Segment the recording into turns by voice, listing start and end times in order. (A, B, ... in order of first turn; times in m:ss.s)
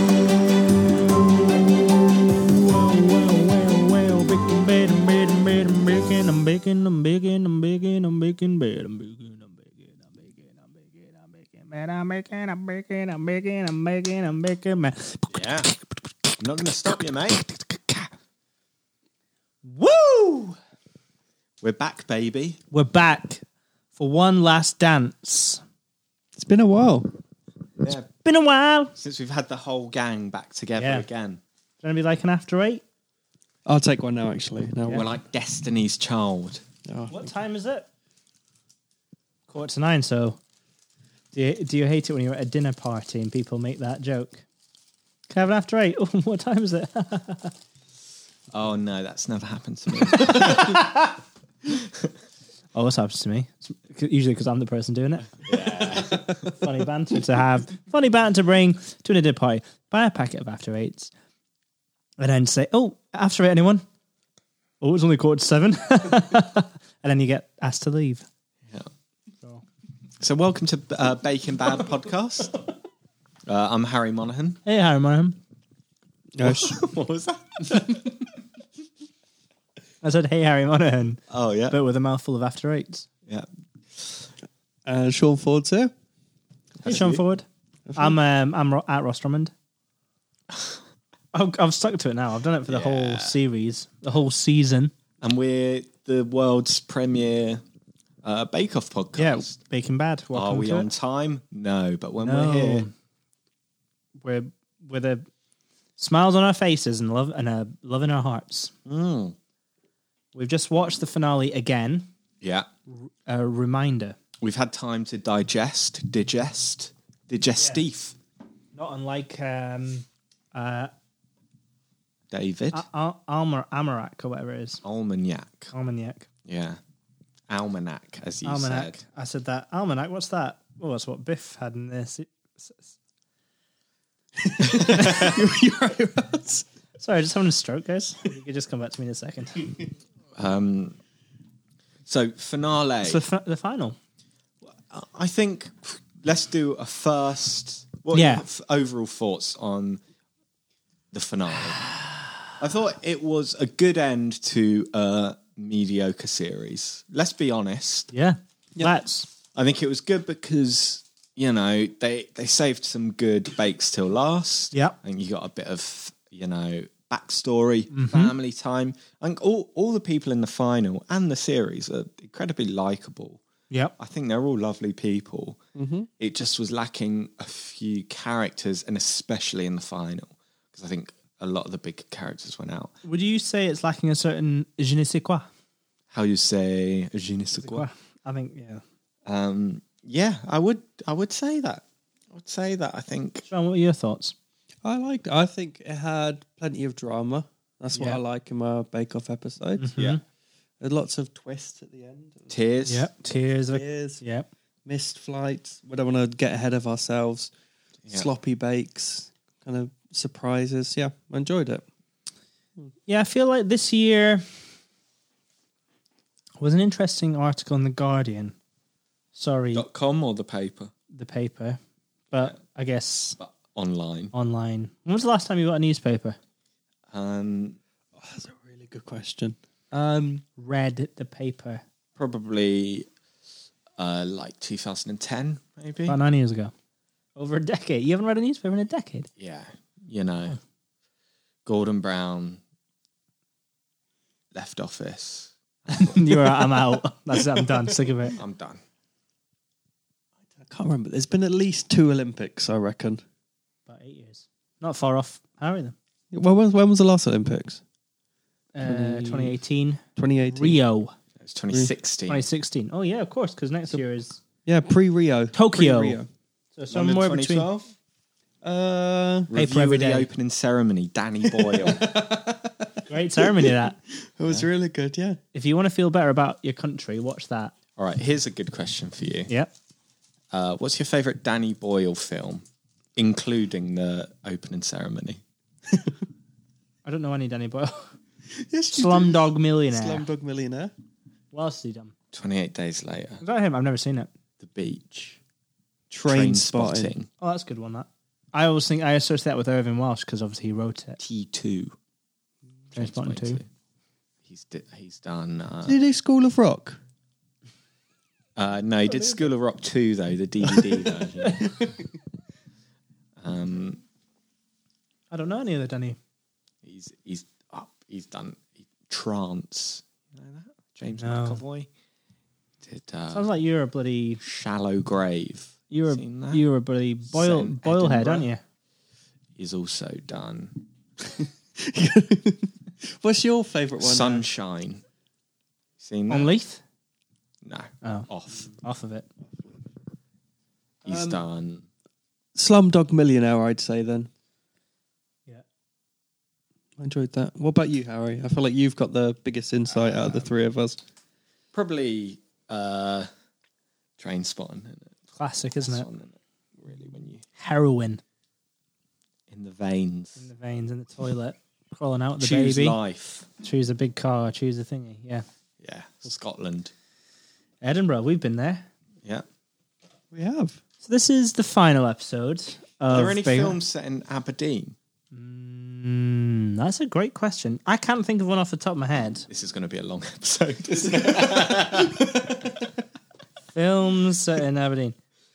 0:02.5-0:18.1 A
0:15.3-0:15.7 B
0:16.4-0:17.4 B
0:19.6-0:20.6 A
0:21.6-0:22.6 B
0:22.7-0:23.4 A
0:24.0-0:25.6 A
0:26.4-0:27.1 C
0:27.8-0:28.1 B
0:28.2-0:28.9 A
0:29.0-0:31.4 B
0:30.8-0:31.0 A
0:31.8-0:32.8 A
0:33.6-0:35.1 C
0:34.9-0:36.6 B
0:36.8-0:37.3 C
0:37.1-0:37.9 A
0:39.5-0:40.4 A
0:41.3-0:44.4 A
0:45.3-0:47.5 A
0:48.5-0:50.9 B
0:50.1-0:51.1 A
0:51.7-0:52.1 B
0:52.7-1:01.1 A
0:55.5-0:56.5 B
1:02.2-1:03.8 A
1:04.8-1:08.2 A
1:10.2-1:12.5 B
1:13.5-1:14.6 B
1:14.6-1:15.4 A
1:16.3-1:16.8 C
1:16.4-1:18.1 B
1:20.0-1:23.1 A
1:21.3-1:21.8 B
1:23.3-1:24.3 B
1:24.8-1:25.9 C
1:26.8-1:27.2 B
1:26.8-1:29.5 A
1:27.9-1:28.2 C
1:30.5-1:30.8 B
1:31.3-1:34.9 A
1:32.7-1:33.4 B
1:35.2-1:37.6 B
1:38.2-1:39.6 B
1:39.2-1:40.9 A
1:40.3-1:42.8 B
1:42.2-1:42.9 A
1:44.2-1:45.2 A
1:46.0-1:48.7 A
1:48.8-1:49.4 B
1:50.3-1:52.1 A
1:52.4-1:52.7 B
1:52.9-1:54.2 A
1:54.4-1:58.2 B
1:57.6-1:57.8 A
1:58.7-2:00.9 A
2:02.3-2:02.8 B
2:02.7-2:04.8 A
2:04.8-2:05.7 B
2:05.7-2:06.3 A
2:06.4-2:06.8 B
2:07.5-2:09.0 B
2:08.4-2:12.9 A
2:14.4-2:16.6 C
2:14.6-2:15.4 B
2:17.0-2:19.8 A
2:20.4-2:21.0 B
2:22.0-2:23.2 B
2:23.0-2:24.0 A
2:24.6-2:30.0 B
2:28.1-2:28.4 A
2:31.1-2:31.8 B
2:32.6-2:38.1 B
2:38.1-2:39.3 A
2:39.5-2:53.4 B
2:47.9-2:48.3 A
2:54.0-2:55.6 B
2:55.8-2:56.1 C
2:56.2-3:02.9 B
3:03.0-3:05.5 A
3:06.1-3:07.9 B
3:07.6-3:08.8 A
3:09.2-3:13.4 B
3:13.5-3:14.3 A
3:14.8-3:19.9 C
3:17.9-3:18.2 A
3:19.8-3:20.2 A
3:20.8-3:22.5 C
3:22.5-3:23.1 B
3:22.8-3:24.5 A
3:23.7-3:24.2 C
3:24.8-3:27.5 C
3:28.1-3:31.8 C
3:33.1-3:34.4 A
3:36.6-3:38.6 A
3:39.3-3:39.8 A
3:39.7-3:40.9 B
3:41.1-3:41.8 A
3:42.3-3:43.4 A
3:43.4-3:44.3 B
3:44.3-3:46.4 A
3:47.1-3:47.8 B
3:48.2-3:50.4 C
3:50.5-3:51.8 A
3:52.2-3:53.1 B
3:54.0-3:56.2 B
3:56.0-3:56.7 A
3:57.4-3:59.3 A
3:59.4-4:00.6 B
4:01.6-4:02.6 B
4:04.5-4:06.3 B
4:05.9-4:08.4 A
4:08.3-4:08.8 B
4:10.6-4:13.2 C
4:13.9-4:16.0 A
4:16.3-4:17.8 C
4:18.7-4:21.1 A
4:18.8-4:19.6 C
4:20.2-4:20.8 C
4:21.4-4:22.4 B
4:22.3-4:24.4 A
4:24.6-4:26.3 C
4:25.5-4:26.2 A
4:26.8-4:27.7 A
4:26.9-4:27.9 B
4:28.6-4:29.5 C
4:29.5-4:32.1 B
4:29.5-4:30.3 A
4:31.5-4:35.4 C
4:33.1-4:34.0 A
4:35.5-4:37.7 A
4:38.0-4:39.5 B
4:40.5-4:42.6 B
4:43.2-4:45.4 B
4:47.0-4:48.1 A
4:48.5-4:50.9 C
4:48.9-4:50.3 A
4:51.5-4:52.1 A
4:52.3-4:53.4 B
4:53.4-4:54.3 A
4:54.6-4:55.4 B
4:56.1-4:57.1 C
4:56.2-4:57.3 B
4:57.4-5:01.2 A
5:01.2-5:02.0 B
5:02.9-5:03.6 B
5:02.9-5:03.6 A
5:04.4-5:06.0 B
5:05.8-5:07.0 C
5:08.6-5:11.7 B
5:09.1-5:09.5 A
5:11.6-5:11.9 C
5:13.4-5:14.0 B
5:15.3-5:16.2 A
5:16.8-5:21.9 B
5:21.2-5:21.6 A
5:22.8-5:23.5 B
5:23.3-5:24.4 A
5:24.4-5:26.6 B
5:25.9-5:28.6 A
5:27.3-5:28.5 B
5:29.6-5:30.8 B
5:31.4-5:34.4 C
5:34.0-5:35.0 B
5:36.0-5:36.5 B
5:36.3-5:36.8 A
5:37.6-5:38.7 B
5:38.0-5:39.3 A
5:41.0-5:41.8 B
5:41.0-5:41.4 C
5:42.5-5:44.3 C
5:47.0-5:51.0 C
5:50.0-5:50.5 B
5:51.7-5:53.3 B
5:54.2-5:55.1 B
5:55.3-5:56.0 A
5:55.8-5:57.4 B
5:57.6-5:58.2 A
5:59.5-6:00.4 B
6:00.4-6:03.0 A
6:02.4-6:03.5 B
6:03.6-6:05.4 A
6:05.8-6:06.9 B
6:07.8-6:08.9 A
6:10.3-6:10.8 C
6:11.0-6:13.8 A
6:13.1-6:15.0 B
6:15.3-6:19.5 A
6:19.5-6:22.6 B
6:21.3-6:22.7 C
6:23.7-6:25.2 A